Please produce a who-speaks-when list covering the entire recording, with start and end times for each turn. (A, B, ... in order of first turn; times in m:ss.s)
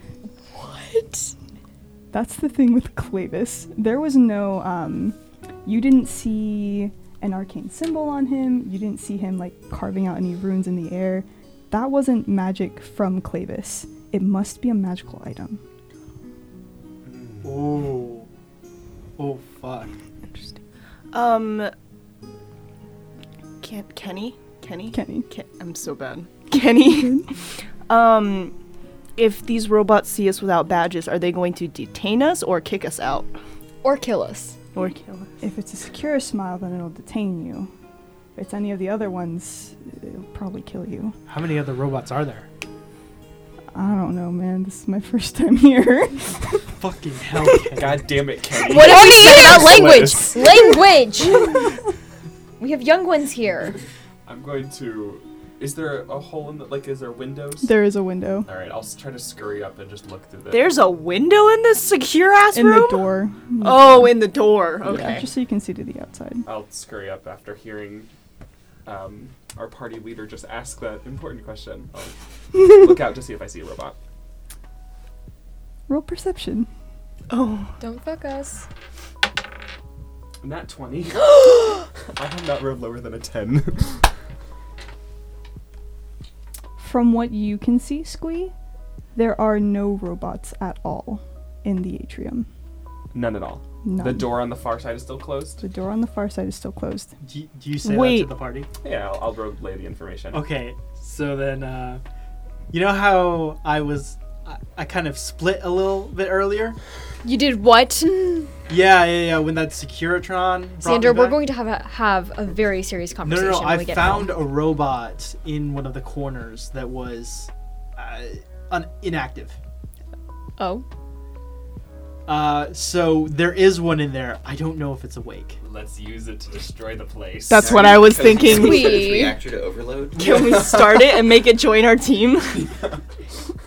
0:00.5-0:01.3 A
0:02.1-0:15.6 B
0:17.0-0:17.8 C
0:17.4-0:18.3 D
0:19.2-0:19.9 D
0:21.1-0:21.7 E
0:23.6-0:27.3 E
0:24.9-0:25.3 B
0:26.5-0:27.3 B
0:27.9-0:28.5 E
0:29.2-0:33.3 E
0:33.8-0:34.6 A
0:34.7-0:35.4 E
0:35.4-0:37.7 B
0:38.4-0:41.2 B
0:41.3-0:42.5 D
0:43.7-0:46.6 B
0:46.8-0:48.2 D
0:47.8-0:50.7 C
0:48.6-0:51.7 A
0:52.6-0:53.8 A
0:54.3-0:57.7 C
0:57.6-0:58.5 B
0:58.5-1:00.8 C
1:00.5-1:05.3 E
1:02.5-1:06.5 B
1:06.4-1:08.1 C
1:08.8-1:14.0 C
1:15.9-1:16.7 B
1:17.3-1:17.8 E
1:17.8-1:18.7 A
1:20.4-1:24.0 C
1:26.8-1:28.5 B
1:29.1-1:32.5 B
1:33.1-1:35.6 C
1:33.8-1:34.4 B
1:35.6-1:37.1 B
1:37.2-1:38.7 D
1:37.8-1:38.3 E
1:38.8-1:40.5 C
1:40.3-1:42.0 D
1:42.7-1:46.8 D
1:47.2-1:48.5 A
1:48.7-1:51.4 D
1:50.8-1:54.5 A
1:53.2-1:59.6 D
2:00.6-2:00.8 A
2:02.3-2:05.6 D
2:05.6-2:08.8 C
2:07.5-2:09.0 E
2:07.6-2:10.5 F
2:08.5-2:09.4 A
2:10.2-2:12.7 E
2:10.2-2:11.2 C
2:12.5-2:13.0 C